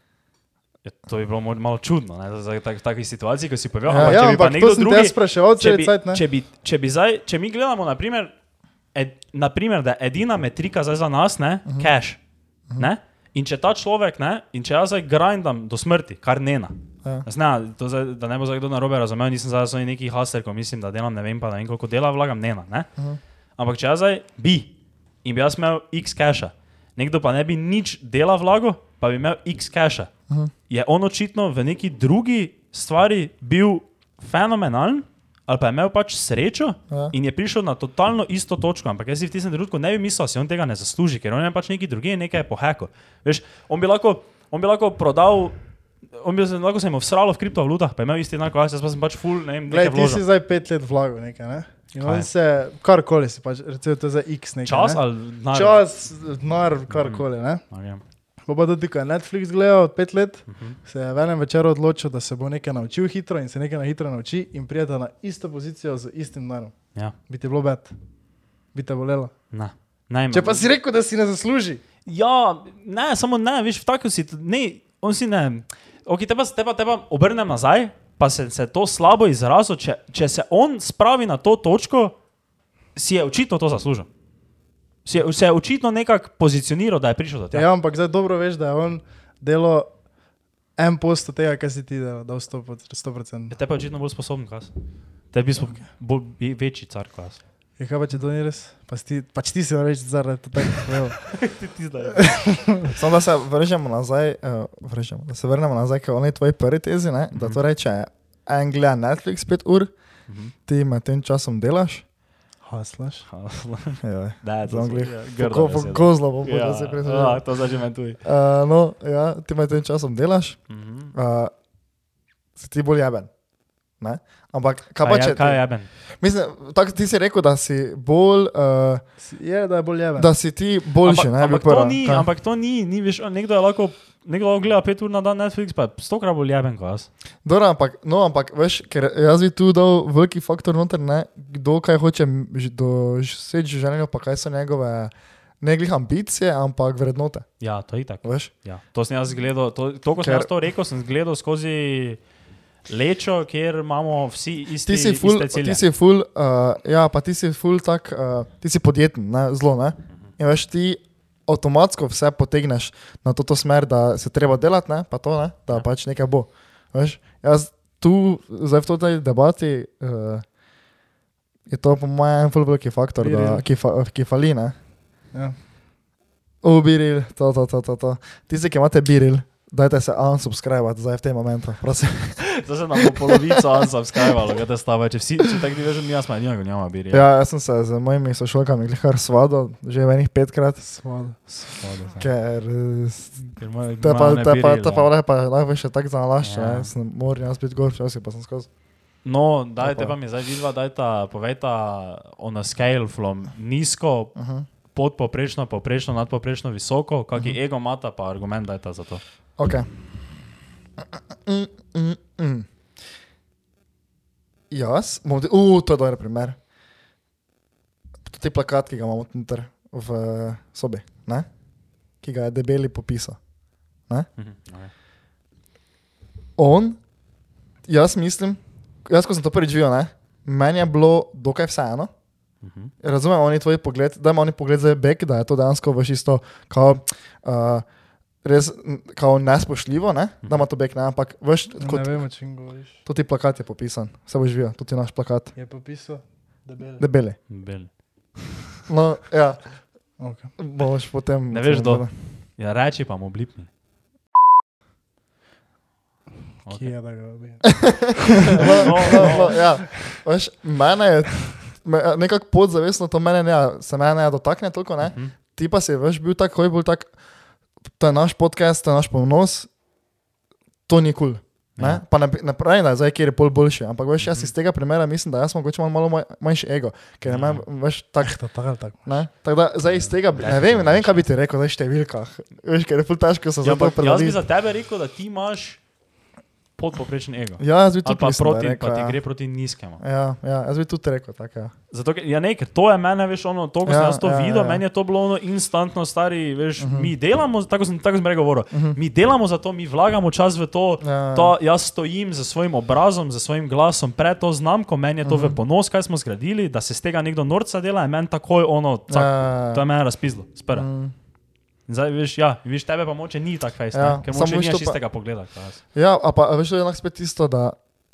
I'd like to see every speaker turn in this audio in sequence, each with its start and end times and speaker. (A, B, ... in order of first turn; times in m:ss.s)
0:00.8-0:08.3 A
0:03.9-0:04.2 B
0:04.0-0:06.2 C
0:08.9-0:12.2 A
0:12.8-0:22.9 A
0:23.6-0:24.7 A
0:25.2-0:30.1 A
0:30.7-0:45.6 A
0:46.1-0:50.2 A
0:49.7-0:55.0 C
0:52.0-0:52.3 A
0:54.6-0:55.8 A
0:55.5-0:57.6 C
0:56.9-0:58.0 A
0:58.5-1:06.8 C
1:00.5-1:00.8 A
1:07.3-1:07.9 C
1:08.7-1:09.3 C
1:09.5-1:10.7 A
1:10.3-1:11.8 C
1:12.1-1:22.2 A
1:23.0-1:24.1 A
1:25.0-1:27.7 A
1:27.5-1:29.9 C
1:30.8-1:33.6 C
1:33.5-1:34.7 A
1:35.3-1:37.4 A
1:37.8-1:41.3 C
1:41.2-1:42.4 A
1:42.1-1:43.0 C
1:42.9-1:49.9 B
1:50.3-1:50.5 A
1:50.7-1:52.0 B
1:52.6-1:53.3 C
1:53.3-1:58.2 A
1:54.0-1:57.4 B
1:58.2-2:00.6 B
2:00.7-2:01.1 A
2:01.1-2:01.5 B
2:02.6-2:03.3 B
2:04.0-2:05.6 B
2:05.0-2:05.9 A
2:06.2-2:09.0 B
2:09.2-2:10.3 C
2:10.2-2:12.3 B
2:11.0-2:17.1 A
2:17.4-2:27.5 B
2:27.6-2:32.2 A
2:28.2-2:28.5 B
2:30.2-2:30.5 B
2:32.9-2:35.8 A
2:34.8-2:50.4 B
2:51.7-2:54.8 B
2:53.2-2:53.6 C
2:56.6-3:02.5 B
3:02.4-3:07.3 A
3:03.0-3:03.4 B
3:07.1-3:10.8 B
3:10.8-3:11.4 C
3:11.5-3:12.3 A
3:12.2-3:13.4 B
3:13.4-3:15.1 A
3:14.0-3:18.7 B
3:16.4-3:16.9 A
3:19.2-3:24.3 A
3:19.8-3:20.2 B
3:24.4-3:24.7 B
3:24.9-3:29.2 A
3:29.6-3:29.9 B
3:31.4-3:32.7 B
3:34.7-3:36.6 B
3:38.2-3:41.5 B
3:42.2-3:43.4 B
3:44.4-3:44.9 A
3:46.6-3:47.0 B
3:47.9-3:52.1 B
3:52.6-3:52.9 A
3:53.0-3:57.8 B
3:58.4-4:02.2 B
4:01.8-4:03.0 C
4:03.1-4:05.5 B
4:05.6-4:07.0 C
4:07.0-4:07.4 B
4:07.5-4:07.9 A
4:08.9-4:09.7 B
4:10.2-4:10.5 C
4:10.6-4:12.1 B
4:11.5-4:13.7 A
4:16.7-4:16.9 A
4:16.7-4:19.9 C
4:17.7-4:27.1 B
4:18.4-4:19.5 A
4:25.0-4:25.4 A
4:28.0-4:29.7 B
4:30.9-4:38.4 B
4:31.8-4:32.0 A
4:34.2-4:34.5 A
4:37.2-4:37.6 A
4:38.2-4:39.2 C
4:39.1-4:44.4 B
4:40.4-4:41.2 A
4:43.6-4:45.8 A
4:46.8-4:50.0 A
4:47.6-4:49.2 B
4:50.0-4:51.7 B
4:51.9-5:10.9 A
4:53.9-4:54.8 B
4:56.8-4:57.1 B
4:58.7-4:59.0 B
5:01.0-5:01.6 B
5:05.2-5:05.6 B
5:09.1-5:09.8 B
5:10.7-5:11.1 B
5:11.9-5:15.8 A
5:13.9-5:15.0 B
5:15.9-5:17.8 B